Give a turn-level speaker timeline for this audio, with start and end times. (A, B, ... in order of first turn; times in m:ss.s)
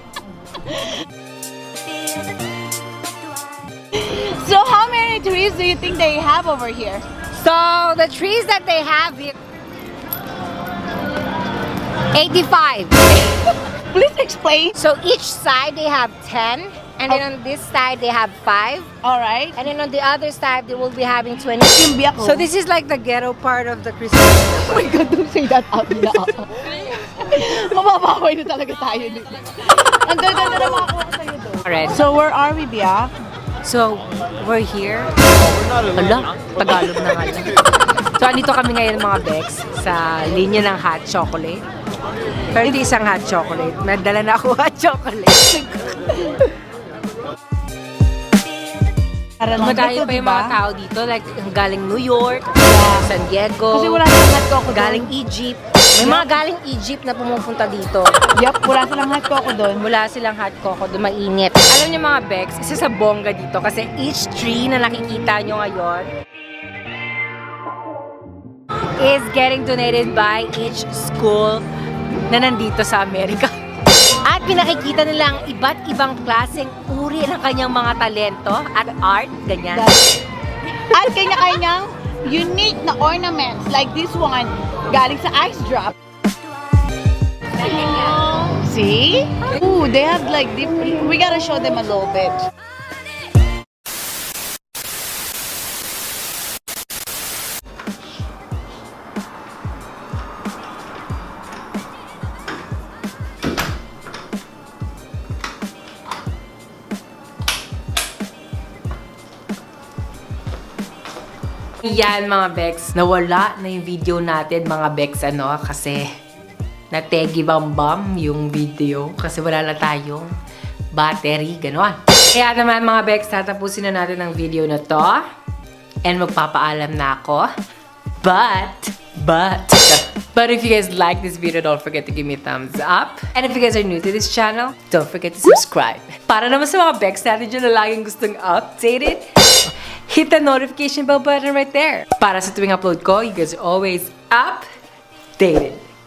0:03.9-0:07.0 A
0:07.3-0:09.3 B
0:12.1-0:13.0 B
0:13.9-0:14.8 A
0:14.8-0:18.9 B
0:19.0-0:19.6 A
0:19.5-0:24.9 B
0:21.8-0:22.5 A
0:24.5-0:26.5 A
0:27.1-0:33.1 A
0:31.6-0:32.0 B
0:33.6-0:35.1 B
0:35.9-0:37.5 B
0:38.2-0:41.6 B
0:42.5-0:46.0 B
0:49.4-0:50.6 A
0:49.6-0:54.0 B
0:52.6-0:53.1 A
0:53.7-0:55.1 A
0:54.7-0:58.2 B
0:56.0-0:56.4 A
0:58.3-0:59.8 A
0:59.8-1:06.1 B
1:09.0-1:11.6 B
1:12.3-1:13.5 B
1:14.2-1:20.1 B
1:20.9-1:25.9 A
1:27.6-1:32.5 A
1:51.8-1:56.1 B
1:56.9-2:00.3 B
2:00.9-2:05.2 B
2:06.0-2:07.5 B
2:08.2-2:19.3 B
2:20.1-2:24.6 B
2:25.4-2:25.8 B